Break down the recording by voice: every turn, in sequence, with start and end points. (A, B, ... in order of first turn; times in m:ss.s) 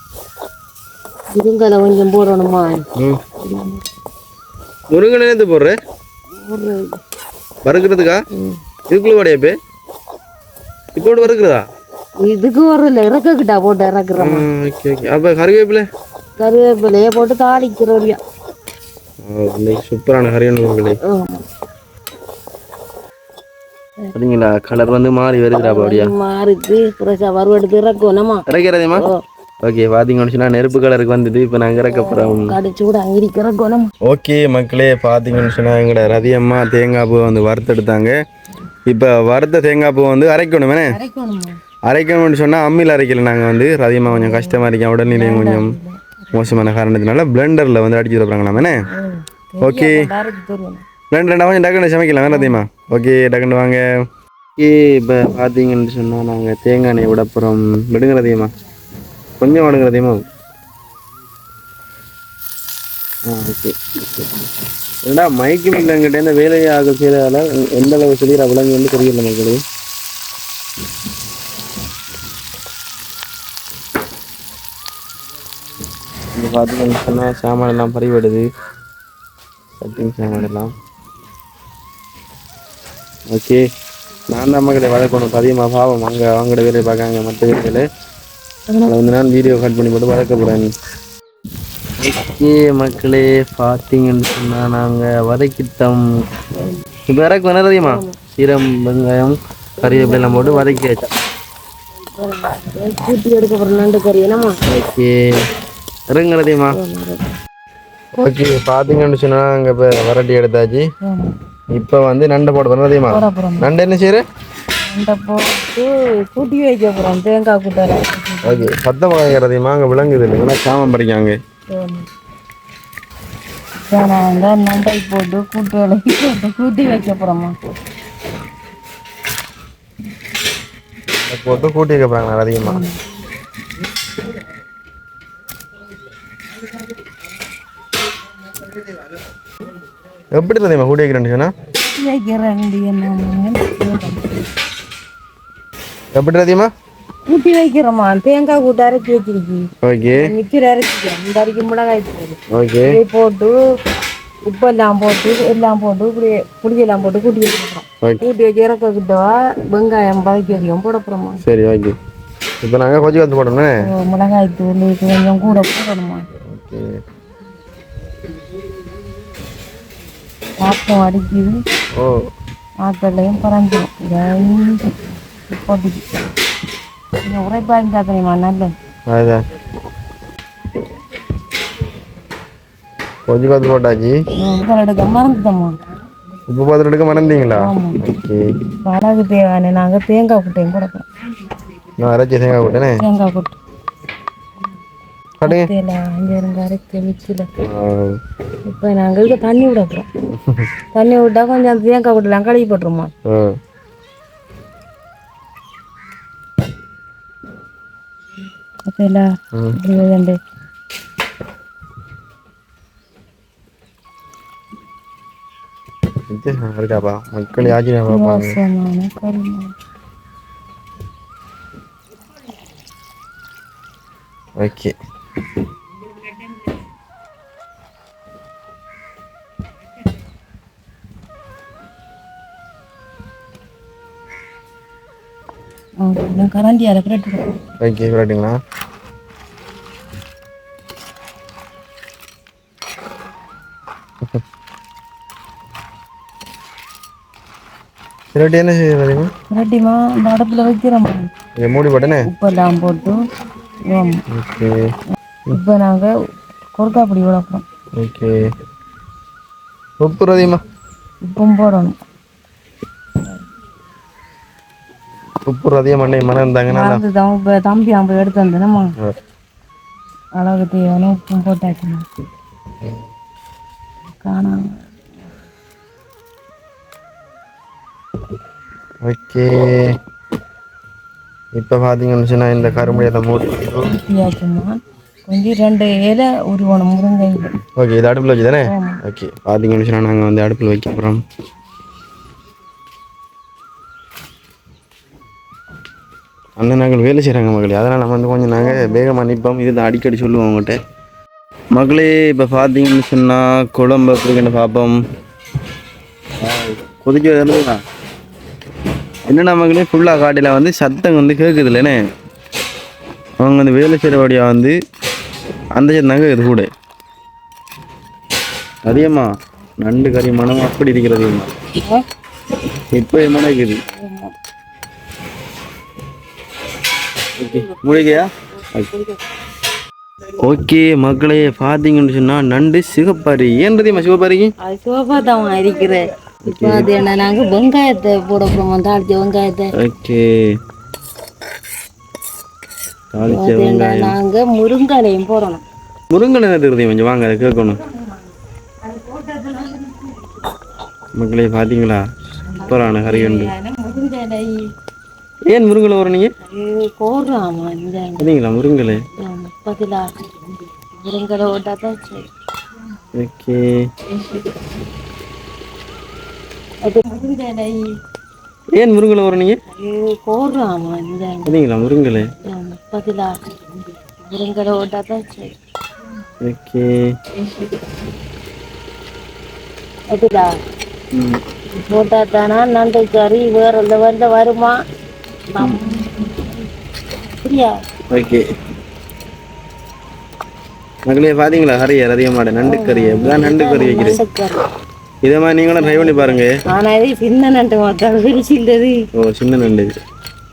0:01.3-0:02.8 A
0:03.0-0:03.2 B
0:03.4-0:03.8 A
0:04.9-0:05.8 B
0:06.4-0:06.9 A
0:07.6-0:08.2 B
0:08.3-0:08.6 A
0:08.9-0:09.6 B
0:10.9-0:11.6 B
0:12.2-0:14.4 A
0:14.2-0:15.8 B
0:16.4-0:18.2 A
0:19.2-0:21.0 B
0:21.0-0:21.4 A
0:24.1-0:26.1 B
0:25.5-0:29.2 A
0:28.5-0:29.1 B
0:29.6-0:32.6 B
0:31.9-0:33.9 A
0:34.0-0:38.2 B
0:38.9-0:41.0 B
0:40.9-0:41.6 A
0:41.9-0:45.8 B
0:44.1-0:46.6 A
0:46.3-0:48.8 B
0:48.6-0:50.8 A
0:49.6-0:50.1 B
0:51.1-0:54.0 B
0:52.3-0:52.6 A
0:54.6-0:58.5 B
0:59.4-1:00.2 B
1:03.2-1:03.8 B
1:05.0-1:09.6 B
1:16.3-1:18.4 B
1:19.8-1:20.7 B
1:23.3-1:23.6 B
1:24.3-1:27.9 B
1:28.7-1:29.0 A
1:28.8-1:30.7 B
1:32.0-1:36.1 B
1:37.1-1:41.1 B
1:37.8-1:38.2 A
1:39.8-1:40.8 A
1:42.1-1:44.6 A
1:44.7-1:45.4 B
1:46.1-1:46.8 B
1:46.7-1:47.3 A
1:48.2-1:50.9 B
1:51.0-1:51.3 A
1:51.7-1:54.2 B
1:53.1-1:53.7 A
1:54.9-1:58.7 A
1:58.4-2:01.4 B
2:01.7-2:02.1 A
2:03.8-2:07.5 A
2:11.2-2:12.8 B
2:12.6-2:13.0 A
2:20.3-2:21.5 B
2:21.8-2:24.4 A
2:26.1-2:26.7 B
2:27.3-2:33.6 A
2:29.8-2:30.3 B
2:32.5-2:33.0 B
2:34.4-2:41.4 A
2:41.4-2:42.0 B
2:42.6-2:43.8 B
2:43.8-2:46.3 A
2:46.4-2:47.0 B
2:50.6-2:51.6 A
2:52.0-2:52.2 B
2:52.8-2:55.0 A
2:55.5-2:56.0 A
2:57.2-2:58.7 A
2:59.1-2:59.4 B
3:03.3-3:04.2 B
3:04.4-3:05.8 A
3:06.5-3:08.4 B
3:07.5-3:08.0 A
3:08.8-3:11.0 A
3:12.0-3:13.0 B
3:13.0-3:13.6 A
3:15.4-3:15.7 B
3:15.4-3:17.5 A
3:17.6-3:18.2 B
3:18.6-3:20.1 A
3:20.4-3:20.7 B
3:20.9-3:23.1 A
3:23.2-3:23.6 B
3:28.8-3:30.4 A
3:36.3-3:38.6 B
3:38.1-3:39.7 A
3:44.6-3:44.9 B
3:56.0-3:57.6 A
3:57.8-3:58.6 B
4:08.3-4:09.3 B
4:09.5-4:11.3 A
4:11.6-4:12.3 B
4:12.2-4:13.2 A
4:13.8-4:14.2 A
4:14.3-4:14.8 B
4:15.5-4:16.1 A
4:16.7-4:17.6 A
4:18.0-4:18.5 B
4:20.0-4:20.6 B
4:21.2-4:22.0 A
4:25.4-4:27.0 B
4:26.7-4:28.9 A
4:30.4-4:32.0 A
4:34.2-4:34.8 A
4:39.0-4:40.0 B
4:41.5-4:43.9 B
4:43.8-4:47.5 A
4:47.8-4:51.2 B
4:48.6-4:49.0 A
4:56.6-5:00.8 B
4:58.6-4:59.0 A
5:01.7-5:05.0 B
5:06.4-5:07.8 B
5:09.3-5:12.0 B
5:13.4-5:14.8 B
5:15.7-5:16.7 B
5:18.8-5:21.5 B
5:22.9-5:23.8 B
5:23.8-5:24.3 A
5:27.4-5:28.9 B
5:27.4-5:29.2 A
5:30.4-5:34.5 B
5:34.6-5:39.7 A
5:36.4-5:36.9 B
5:39.8-5:40.6 B
5:43.1-5:44.2 B
5:43.3-5:45.6 A
5:46.1-5:47.8 B
5:47.5-5:48.2 A
5:48.8-5:50.4 A
5:51.1-5:53.5 B
5:52.5-5:54.6 A
5:55.5-5:56.3 B
5:56.4-5:58.3 A
5:58.2-5:59.0 B
5:59.2-6:00.1 A
6:01.0-6:02.3 A
6:03.1-6:03.7 B
6:06.8-6:07.9 A
6:08.7-6:09.6 B
6:09.7-6:11.6 A
6:11.4-6:12.3 B
6:12.4-6:13.3 A
6:14.2-6:15.6 A
6:16.4-6:17.0 B
6:20.1-6:20.5 A
6:21.1-6:21.4 B
6:21.8-6:24.8 A
6:25.5-6:26.5 A
6:27.3-6:27.7 A
6:28.1-6:28.4 B
6:31.1-6:34.2 B
6:32.6-6:34.6 A
6:35.2-6:36.5 B
6:35.8-6:38.9 A
6:39.1-6:40.0 B